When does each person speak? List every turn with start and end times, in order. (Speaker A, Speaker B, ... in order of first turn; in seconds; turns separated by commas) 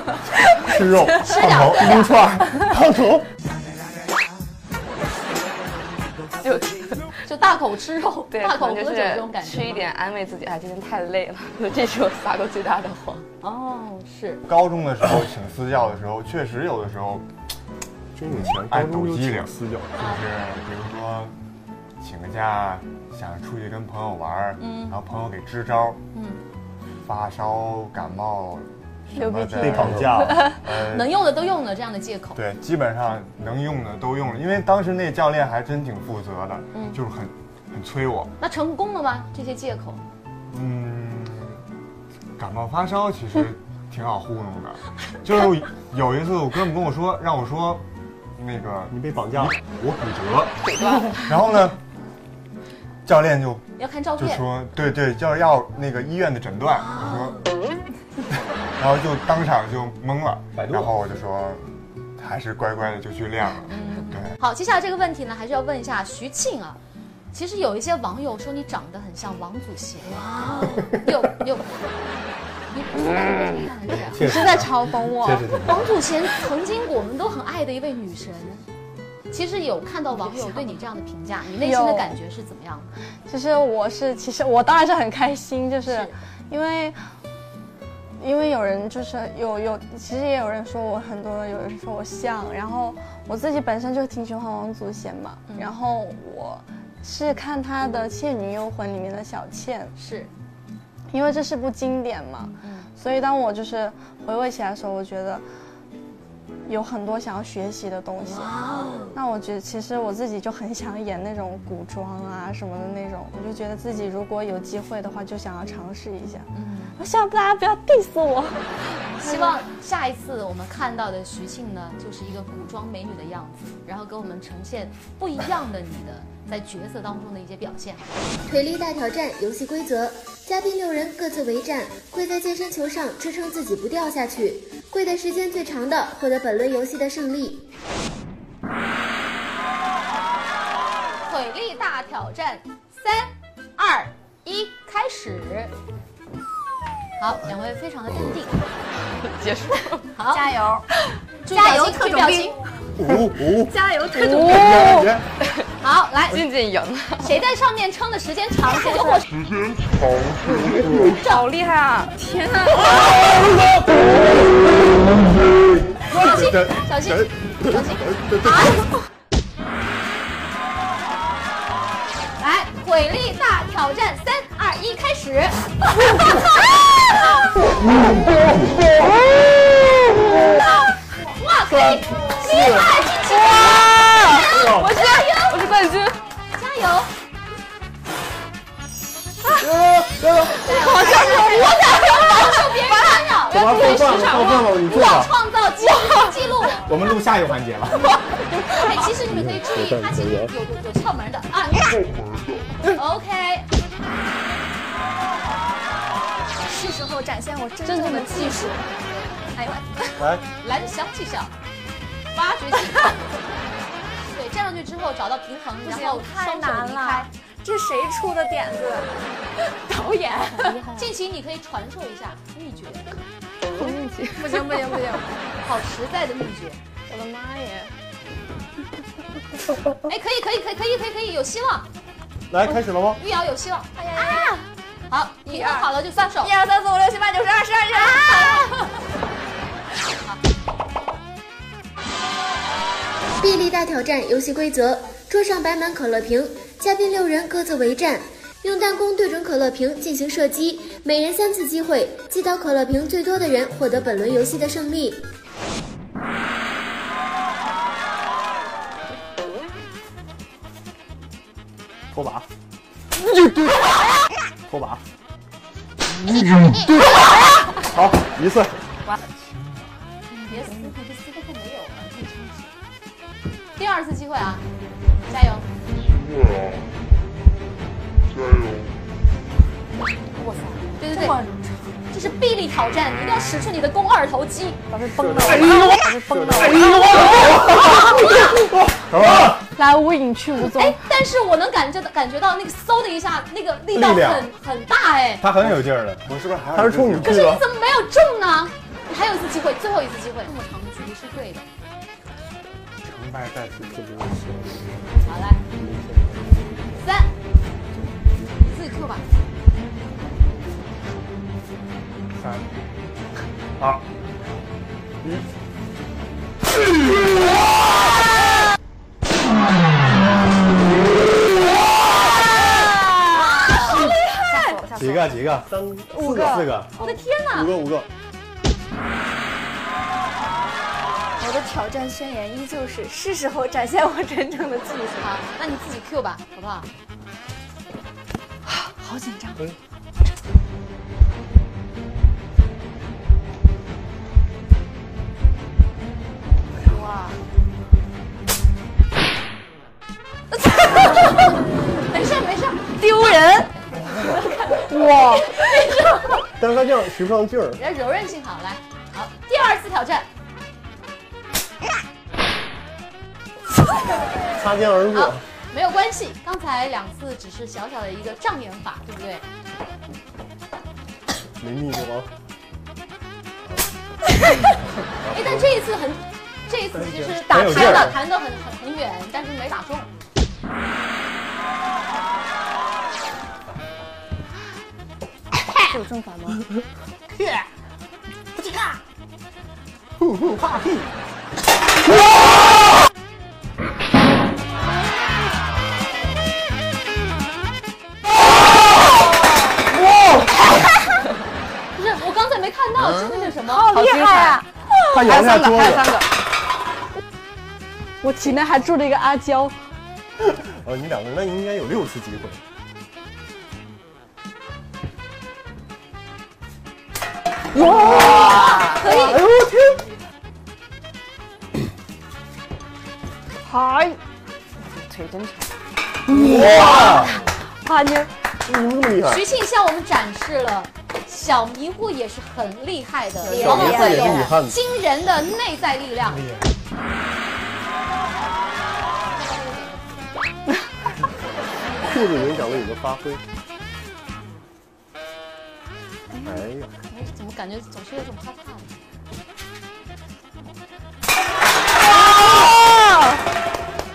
Speaker A: 0.6-3.2, Speaker B: 1.2-2.2, Speaker C: 6.4-7.1, Speaker B: 7.2-9.9, Speaker C: 8.3-13.2, Speaker B: 13.4-14.4, Speaker D: 14.5-17.2, Speaker A: 18.1-19.9, Speaker D: 18.3-21.4, Speaker B: 20.0-20.2, Speaker D: 22.0-26.0, Speaker B: 24.6-25.0, Speaker B: 26.1-26.4, Speaker D: 27.0-31.1, Speaker E: 29.1-30.4, Speaker A: 29.6-30.5, Speaker B: 30.8-32.4, Speaker D: 32.4-38.3, Speaker B: 36.7-37.0, Speaker B: 38.4-40.0, Speaker D: 40.5-41.6, Speaker D: 42.4-47.9, Speaker D: 48.4-51.8, Speaker A: 48.9-49.6, Speaker C: 50.6-51.2, Speaker D: 53.0-57.5, Speaker B: 53.8-54.5, Speaker D: 58.8-61.6, Speaker F: 60.5-61.0, Speaker D: 62.2-64.4, Speaker B: 63.7-66.8, Speaker B: 67.3-71.7, Speaker B: 72.7-74.3, Speaker F: 74.1-76.0, Speaker E: 74.2-75.5, Speaker B: 75.6-78.6, Speaker B: 79.3-82.9, Speaker E: 81.6-82.2, Speaker E: 83.3-87.0, Speaker B: 85.9-86.1, Speaker E: 88.2-99.9, Speaker B: 95.5-95.7, Speaker B: 100.0-100.3, Speaker E: 101.1-105.4, Speaker B: 102.6-102.9, Speaker E: 106.7-118.6, Speaker B: 116.5-117.0, Speaker B: 119.2-128.2, Speaker E: 119.3-119.5, Speaker G: 128.5-137.7, Speaker B: 141.2-145.7, Speaker B: 147.2-148.6, Speaker C: 149.0-150.1, Speaker B: 150.1-150.5, Speaker H: 150.3-150.9, Speaker B: 151.5-152.6, Speaker H: 151.5-152.6, Speaker A: 153.0-153.7, Speaker H: 153.5-155.1, Speaker E: 154.1-155.1, Speaker A: 154.6-155.2, Speaker C: 155.4-155.7, Speaker B: 155.8-156.4, Speaker C: 156.3-157.4, Speaker B: 157.2-159.3, Speaker C: 160.9-162.2, Speaker H: 162.2-163.2, Speaker B: 166.1-168.9, Speaker A: 166.2-168.6, Speaker B: 172.4-175.6, Speaker B: 177.1-177.4, Speaker B: 180.6-185.8, Speaker A: 181.7-182.9, Speaker C: 183.7-186.2, Speaker A: 184.4-184.9, Speaker B: 186.5-187.1, Speaker A: 189.6-190.6, Speaker B: 190.6-196.9, Speaker C: 190.7-192.7, Speaker A: 193.5-195.3, Speaker F: 196.8-198.2, Speaker B: 198.7-202.1, Speaker A: 199.2-200.5, Speaker B: 202.9-203.7, Speaker H: 206.6-208.9, Speaker B: 207.8-208.9, Speaker H: 209.5-210.3, Speaker A: 210.2-210.4, Speaker B: 210.6-211.5, Speaker B: 212.3-213.2, Speaker B: 214.3-217.3, Speaker H: 215.8-220.9, Speaker B: 220.9-223.1, Speaker C: 223.8-224.9, Speaker H: 224.4-225.3, Speaker B: 225.6-226.8, Speaker E: 227.1-227.9, Speaker B: 230.1-231.9, Speaker A: 232.5-233.2, Speaker B: 233.2-233.9, Speaker H: 234.0-234.6, Speaker B: 235.1-236.5, Speaker H: 235.5-238.8, Speaker B: 237.9-238.8, Speaker G: 243.4-255.3, Speaker A: 262.1-262.5, Speaker A: 264.7-265.0, Speaker A: 267.9-268.8, Speaker D: 269.4-269.9, Speaker B: 270.3-272.6, Speaker B: 273.8-274.6, Speaker B: 275.3-275.6, Speaker H: 280.6-281.9, Speaker B: 281.0-281.4, Speaker E: 281.2-281.5, Speaker B: 282.1-284.8, Speaker E: 284.9-287.1, Speaker B: 286.8-288.6, Speaker A: 287.3-289.6, Speaker E: 289.8-291.0, Speaker B: 290.7-295.5, Speaker F: 294.0-294.4, Speaker F: 295.4-296.2, Speaker D: 295.6-297.6, Speaker A: 296.7-297.6, Speaker B: 297.2-301.6, Speaker D: 303.0-304.8, Speaker A: 303.8-304.9, Speaker B: 305.2-305.6, Speaker A: 305.7-307.1, Speaker B: 307.0-307.3, Speaker B: 308.6-309.2, Speaker D: 312.4-312.7, Speaker B: 323.4-324.0, Speaker H: 323.5-324.8, Speaker C: 324.1-325.4, Speaker A: 325.0-327.0, Speaker H: 326.2-327.1, Speaker B: 327.0-327.7, Speaker A: 327.5-328.1, Speaker H: 331.4-335.4, Speaker B: 335.2-336.9, Speaker H: 338.7-339.7, Speaker C: 346.9-347.3, Speaker B: 352.1-353.0, Speaker E: 353.0-353.6, Speaker A: 354.0-354.4, Speaker B: 354.4-356.4, Speaker E: 354.9-355.4, Speaker A: 356.6-357.8, Speaker B: 357.8-360.3, Speaker A: 364.5-365.4, Speaker B: 365.1-369.4, Speaker A: 371.6-372.3, Speaker A: 375.2-375.8, Speaker B: 375.3-380.1, Speaker A: 377.1-377.8, Speaker F: 377.4-378.2, Speaker E: 385.9-386.6, Speaker A: 390.2-391.0, Speaker B: 402.0-403.9, Speaker C: 403.9-404.6, Speaker E: 403.9-404.6, Speaker H: 403.9-404.5, Speaker A: 405.1-406.1, Speaker C: 405.2-406.3, Speaker E: 408.2-409.8, Speaker A: 410.4-412.6, Speaker A: 417.8-420.0, Speaker B: 418.3-419.4, Speaker C: 418.4-418.7, Speaker E: 423.6-424.2, Speaker C: 424.8-425.7, Speaker F: 426.4-427.2, Speaker A: 426.5-427.2, Speaker E: 427.9-428.3, Speaker A: 428.6-429.4, Speaker B: 429.2-436.5, Speaker H: 433.4-434.5, Speaker A: 433.5-434.8, Speaker B: 439.3-440.3, Speaker B: 441.8-442.9, Speaker A: 442.0-443.4, Speaker A: 446.4-446.9, Speaker B: 447.1-449.0